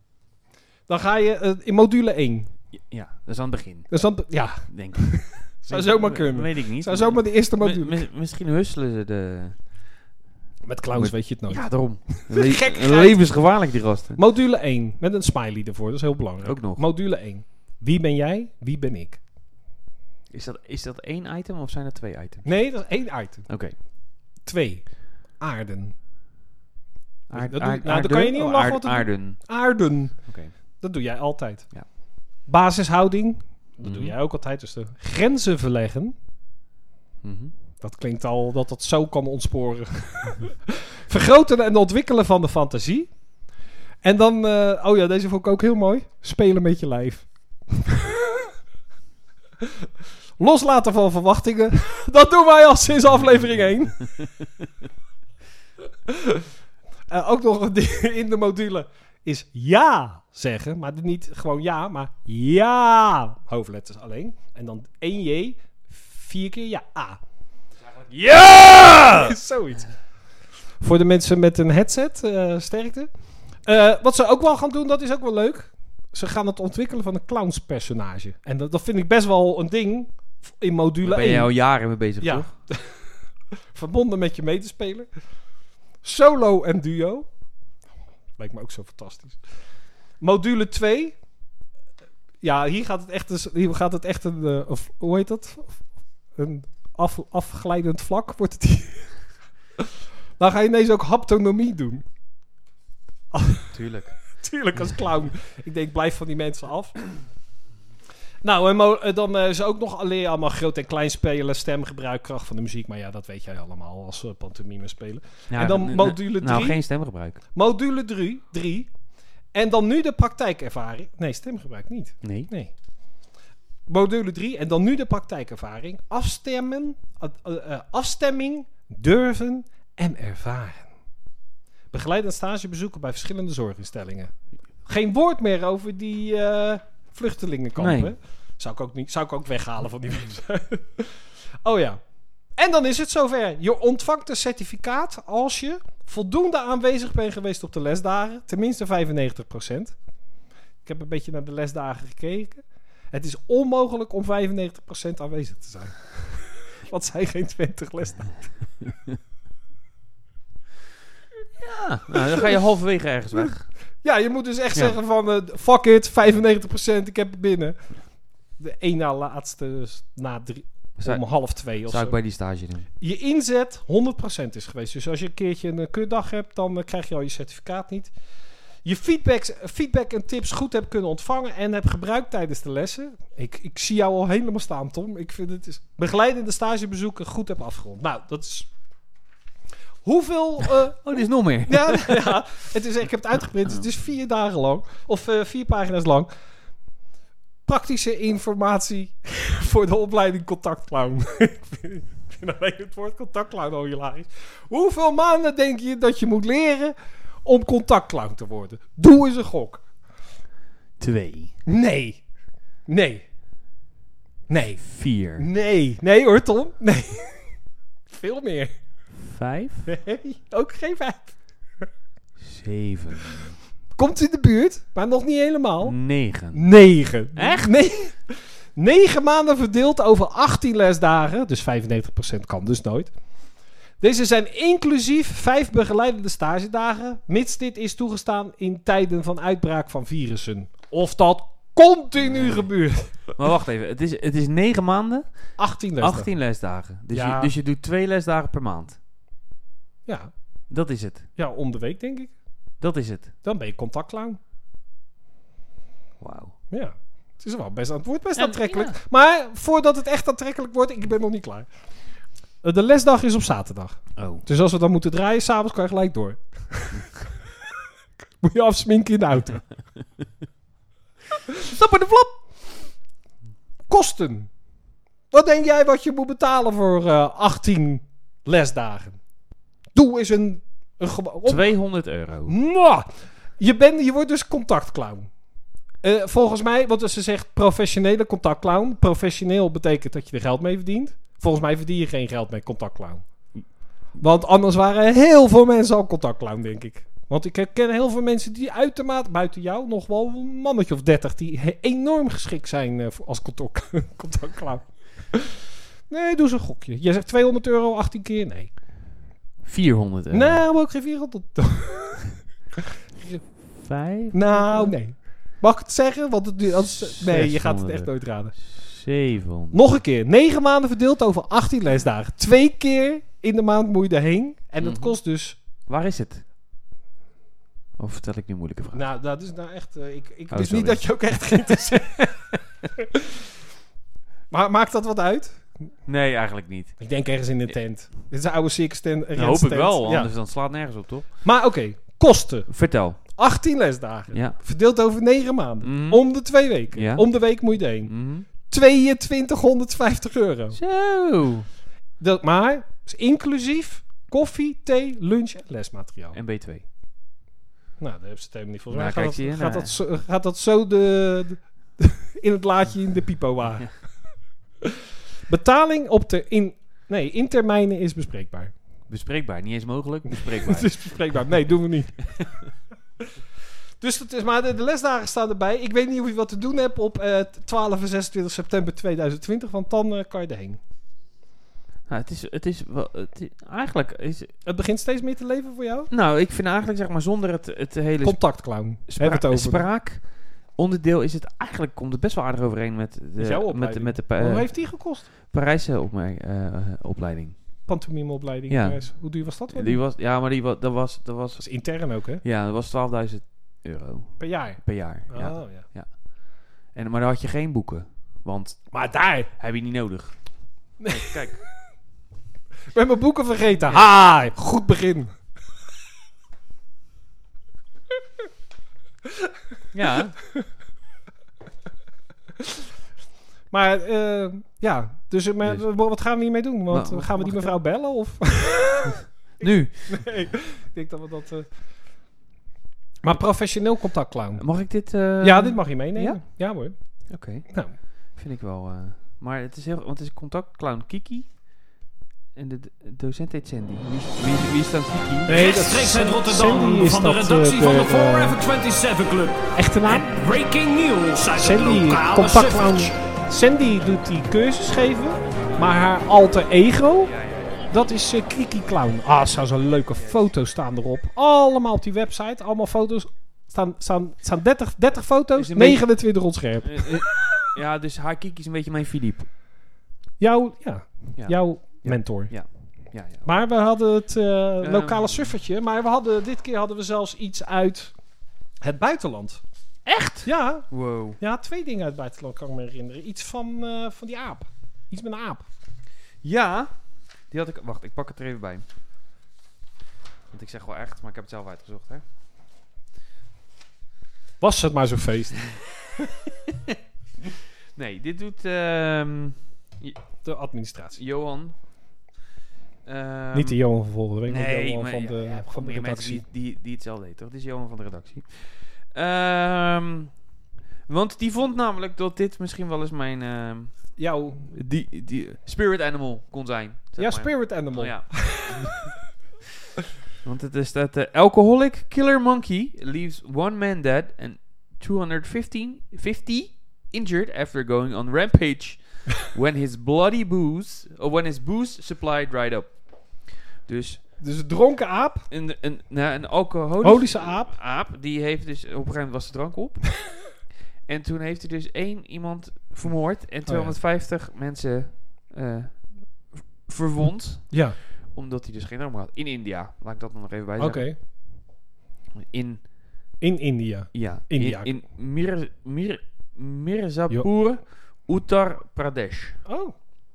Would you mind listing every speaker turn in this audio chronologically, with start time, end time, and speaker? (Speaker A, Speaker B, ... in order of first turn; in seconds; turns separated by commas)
Speaker A: 0.9-2.5, Speaker B: 2.7-3.9, Speaker A: 3.9-8.0, Speaker B: 4.7-9.6, Speaker A: 10.6-13.2, Speaker B: 10.9-14.2, Speaker A: 14.1-19.2, Speaker B: 16.4-16.8, Speaker B: 20.3-22.6, Speaker A: 22.4-23.6, Speaker B: 23.5-23.7, Speaker A: 24.4-25.9, Speaker B: 27.3-29.4, Speaker A: 27.3-30.3, Speaker B: 30.3-30.5, Speaker A: 30.8-31.7, Speaker A: 32.5-36.1, Speaker B: 33.8-34.1, Speaker B: 37.2-37.5, Speaker A: 37.8-43.2, Speaker A: 44.0-48.5, Speaker A: 50.4-54.1, Speaker A: 56.1-56.4, Speaker A: 57.1-67.2, Speaker B: 67.9-69.3, Speaker A: 69.1-69.9, Speaker A: 70.8-73.1, Speaker A: 73.6-81.5, Speaker B: 81.0-82.5, Speaker A: 82.2-83.0, Speaker A: 83.7-85.1, Speaker A: 86.0-87.3, Speaker A: 88.4-89.4, Speaker A: 90.2-91.2, Speaker A: 92.4-95.8, Speaker A: 96.3-99.1, Speaker A: 100.4-102.0, Speaker A: 103.3-103.7, Speaker B: 103.7-104.2, Speaker A: 104.4-107.0, Speaker A: 108.4-116.8, Speaker B: 115.5-117.4, Speaker A: 117.5-118.9, Speaker A: 119.5-122.7, Speaker B: 122.2-122.5, Speaker A: 123.9-130.9, Speaker A: 131.9-134.3, Speaker A: 134.8-142.0, Speaker B: 137.8-138.1, Speaker A: 142.6-150.0, Speaker A: 150.8-158.7, Speaker B: 161.6-163.7, Speaker A: 164.0-167.9, Speaker A: 168.6-172.2, Speaker B: 171.0-172.9, Speaker A: 173.0-178.1, Speaker A: 178.8-188.7, Speaker A: 190.0-196.3, Speaker B: 191.0-192.4, Speaker A: 197.7-209.8, Speaker B: 211.0-211.5, Speaker A: 211.7-212.2, Speaker A: 212.9-213.2, Speaker A: 214.5-214.8, Speaker B: 214.8-215.5, Speaker A: 215.3-217.6, Speaker A: 218.1-218.7, Speaker B: 219.2-219.9, Speaker A: 219.8-221.3, Speaker B: 222.4-223.5, Speaker A: 223.9-226.0, Speaker B: 225.8-226.7, Speaker A: 226.5-233.1, Speaker B: 227.3-227.7, Speaker A: 234.0-243.3, Speaker B: 242.2-242.7, Speaker B: 243.3-249.0, Speaker A: 245.6-246.3, Speaker A: 247.1-247.5, Speaker A: 250.1-250.3, Speaker B: 250.7-251.3, Speaker A: 251.4-252.3, Speaker B: 252.8-253.3, Speaker A: 253.4-254.4, Speaker B: 256.2-256.5, Speaker A: 256.7-261.7, Speaker B: 258.4-258.9, Speaker A: 262.6-267.1, Speaker B: 264.1-264.4, Speaker A: 268.4-269.6, Speaker B: 271.7-272.4, Speaker A: 273.9-274.5, Speaker A: 275.3-279.2, Speaker A: 279.9-281.7, Speaker B: 281.4-282.6, Speaker A: 282.4-285.3, Speaker A: 286.0-293.2, Speaker A: 294.2-305.6, Speaker A: 306.1-308.7, Speaker B: 309.6-310.6, Speaker A: 310.3-312.4, Speaker A: 313.2-313.4, Speaker B: 313.7-314.9, Speaker A: 314.3-318.6, Speaker B: 316.9-319.9, Speaker A: 319.7-325.6, Speaker B: 324.8-325.2, Speaker B: 325.9-326.4, Speaker B: 328.0-329.0, Speaker A: 328.9-333.2, Speaker B: 330.5-331.2, Speaker A: 334.5-335.7, Speaker B: 336.1-337.0, Speaker A: 337.0-340.3, Speaker B: 339.3-341.3, Speaker A: 341.4-342.7, Speaker B: 342.7-343.2, Speaker A: 343.2-350.8, Speaker B: 344.3-344.6, Speaker B: 345.8-348.5, Speaker B: 350.7-351.7, Speaker A: 352.2-356.4, Speaker B: 356.3-356.8, Speaker A: 358.0-364.2, Speaker B: 358.9-359.9, Speaker A: 365.5-368.7, Speaker B: 369.1-371.4, Speaker A: 370.4-372.6, Speaker B: 372.3-372.6, Speaker A: 374.0-380.8, Speaker B: 382.1-384.5, Speaker A: 384.6-386.1, Speaker B: 386.1-397.6, Speaker A: 388.2-389.9, Speaker A: 393.4-395.3, Speaker A: 397.9-400.0, Speaker B: 398.7-401.9, Speaker A: 401.6-402.4, Speaker B: 402.4-409.1, Speaker A: 404.4-405.9, Speaker A: 408.9-409.5, Speaker B: 409.6-411.6, Speaker A: 411.0-411.3, Speaker A: 412.9-415.3, Speaker B: 419.9-420.4, Speaker A: 423.7-431.7, Speaker B: 426.9-427.8, Speaker B: 429.6-430.4, Speaker A: 433.2-434.7, Speaker B: 434.6-436.6, Speaker A: 435.4-437.9, Speaker B: 437.3-441.9, Speaker B: 442.5-445.6, Speaker A: 445.5-448.6, Speaker C: 445.5-453.2, Speaker A: 449.7-450.3, Speaker A: 451.5-457.3, Speaker B: 457.2-457.9, Speaker A: 457.9-467.2, Speaker B: 460.1-460.5, Speaker B: 465.5-469.5, Speaker A: 470.4-472.6, Speaker B: 471.4-473.6, Speaker A: 473.4-478.1, Speaker B: 474.8-475.5, Speaker A: 478.8-479.6, Speaker B: 480.1-481.4, Speaker A: 480.4-485.6, Speaker B: 486.4-486.9, Speaker B: 487.5-488.8, Speaker B: 490.5-492.2, Speaker A: 494.6-495.7, Speaker B: 497.9-500.2, Speaker A: 500.4-501.2, Speaker B: 501.2-501.8, Speaker B: 503.1-503.8, Speaker A: 503.5-506.4, Speaker B: 504.4-510.4, Speaker B: 511.1-514.2, Speaker A: 514.2-514.7, Speaker B: 514.7-519.1, Speaker A: 517.2-518.9, Speaker B: 520.4-534.2, Speaker A: 534.4-535.5, Speaker B: 535.5-551.1, Speaker A: 537.0-537.8, Speaker A: 543.6-544.0, Speaker A: 547.7-548.0, Speaker A: 550.8-551.2, Speaker B: 552.4-552.9, Speaker A: 553.4-554.9, Speaker B: 554.1-559.6, Speaker A: 559.6-559.9